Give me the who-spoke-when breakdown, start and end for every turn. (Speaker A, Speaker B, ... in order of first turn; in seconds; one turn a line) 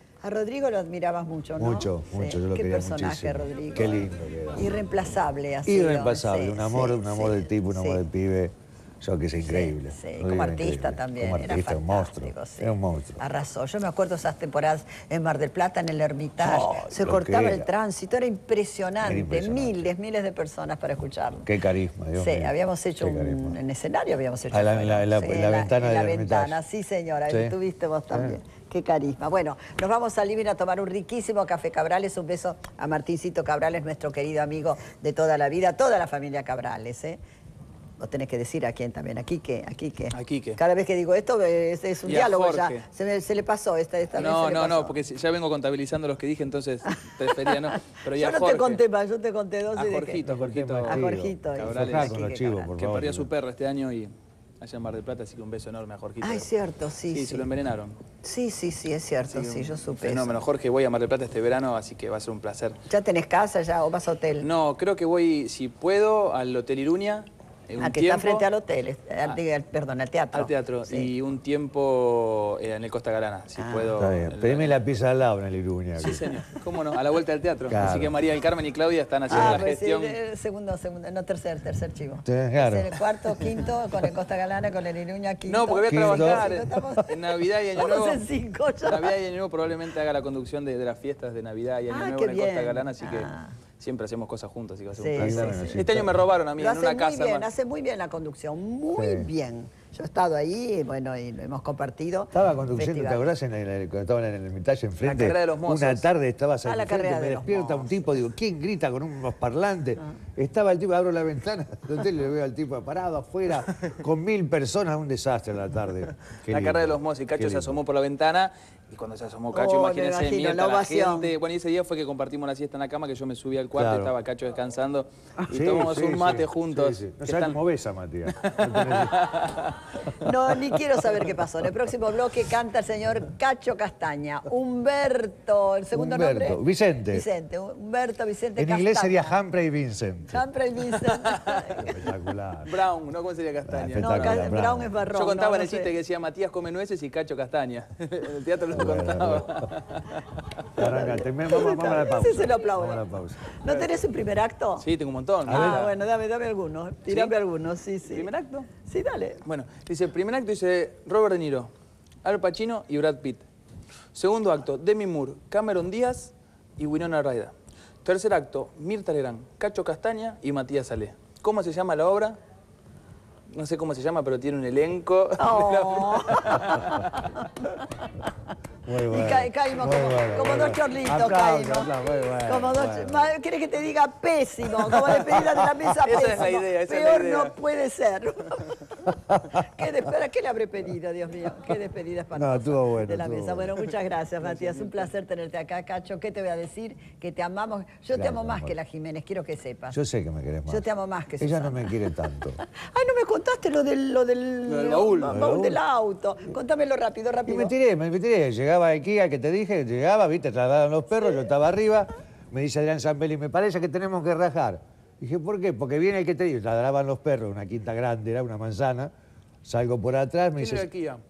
Speaker A: 0.2-8.0
Speaker B: 1.6-4.7
Speaker B: 5.7-13.2
Speaker A: 9.4-21.5
Speaker B: 16.4-17.7
Speaker B: 19.0-19.9
Speaker B: 21.4-23.6
Speaker A: 22.2-37.2
Speaker B: 24.5-26.6
Speaker B: 27.3-27.5
Speaker A: 38.0-45.0
Speaker C: 40.1-40.6
Speaker C: 42.1-42.9
Speaker C: 44.1-48.8
Speaker A: 46.9-50.3
Speaker C: 49.8-52.2
Speaker B: 50.3-53.3
Speaker A: 50.9-52.7
Speaker C: 52.8-56.5
Speaker A: 56.2-57.5
Speaker C: 57.1-58.0
Speaker A: 58.2-60.4
Speaker C: 59.3-62.8
Speaker A: 62.9-64.5
Speaker C: 64.4-68.5
Speaker A: 67.8-71.1
Speaker C: 70.3-74.8
Speaker A: 73.6-74.0
Speaker B: 74.0-76.3
Speaker C: 76.0-80.2
Speaker B: 77.7-78.1
Speaker B: 79.3-79.6
Speaker A: 79.3-87.1
Speaker B: 82.3-82.9
Speaker C: 85.5-88.2
Speaker B: 85.9-86.7
Speaker A: 87.8-89.1
Speaker C: 88.8-97.5
Speaker A: 91.9-93.5
Speaker A: 95.0-95.8
Speaker B: 95.2-96.2
Speaker A: 96.6-103.2
Speaker B: 98.9-99.3
Speaker B: 102.3-117.8
Speaker C: 105.0-106.1
Speaker A: 106.7-108.2
Speaker C: 116.5-127.6
Speaker A: 119.5-121.3
Speaker B: 123.8-124.1
Speaker B: 125.5-129.3
Speaker C: 128.3-129.8
Speaker A: 130.1-139.4
Speaker B: 135.9-137.2
Speaker B: 138.6-140.4
Speaker A: 140.3-141.9
Speaker C: 141.0-141.8
Speaker B: 141.8-142.7
Speaker C: 142.6-144.5
Speaker B: 143.7-144.9
Speaker A: 144.0-145.9
Speaker C: 145.1-150.2
Speaker B: 148.7-149.7
Speaker B: 150.7-153.6
Speaker A: 150.8-154.9
Speaker C: 154.8-156.0
Speaker B: 155.5-155.9
Speaker A: 155.5-158.3
Speaker C: 158.1-158.7
Speaker A: 158.9-159.4
Speaker C: 159.4-161.7
Speaker C: 162.2-163.5
Speaker C: 164.1-172.4
Speaker C: 173.5-177.3
Speaker A: 175.4-177.7
Speaker B: 178.9-183.3
Speaker A: 179.1-181.9
Speaker A: 182.5-200.0
Speaker B: 184.9-185.5
Speaker C: 186.0-187.6
Speaker B: 189.3-189.8
Speaker B: 192.3-193.9
Speaker B: 198.1-198.8
Speaker B: 199.9-200.8
Speaker A: 200.7-207.7
Speaker B: 201.4-202.6
Speaker C: 204.7-205.4
Speaker B: 205.3-205.8
Speaker B: 207.5-219.1
Speaker B: 219.6-220.9
Speaker C: 220.6-221.2